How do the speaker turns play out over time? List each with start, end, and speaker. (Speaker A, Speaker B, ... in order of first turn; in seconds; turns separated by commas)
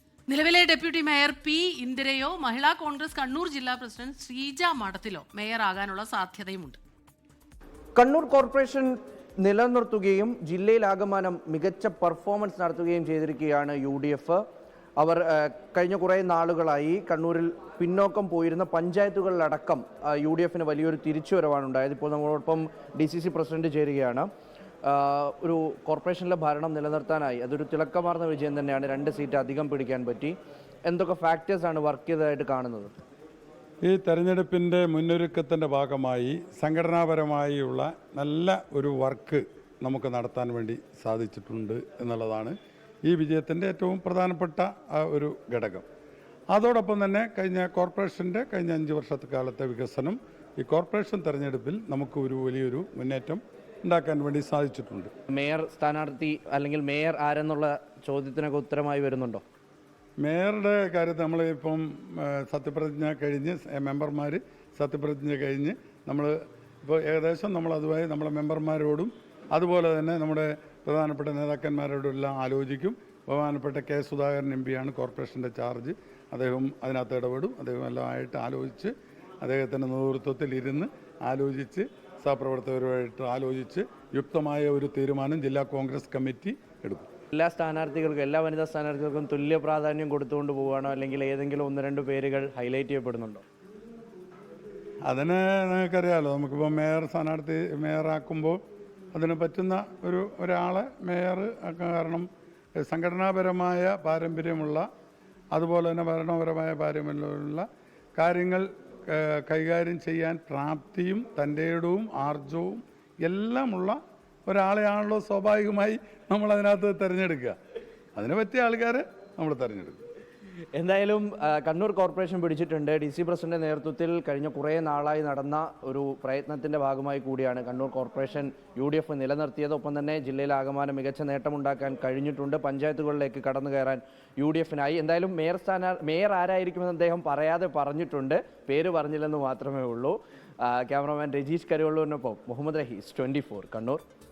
Speaker A: 0.3-6.8, Speaker B: 8.0-14.4, Speaker B: 15.0-24.3, Speaker B: 24.9-30.3, Speaker B: 30.9-32.9, Speaker C: 33.8-42.5, Speaker C: 43.1-45.9, Speaker C: 46.5-55.1, Speaker B: 55.3-59.4, Speaker C: 60.2-87.1, Speaker B: 87.3-93.4, Speaker C: 95.1-98.6, Speaker C: 99.1-102.3, Speaker C: 102.9-104.9, Speaker C: 105.5-107.7, Speaker C: 108.2-117.5, Speaker C: 118.2-120.0, Speaker B: 120.7-144.0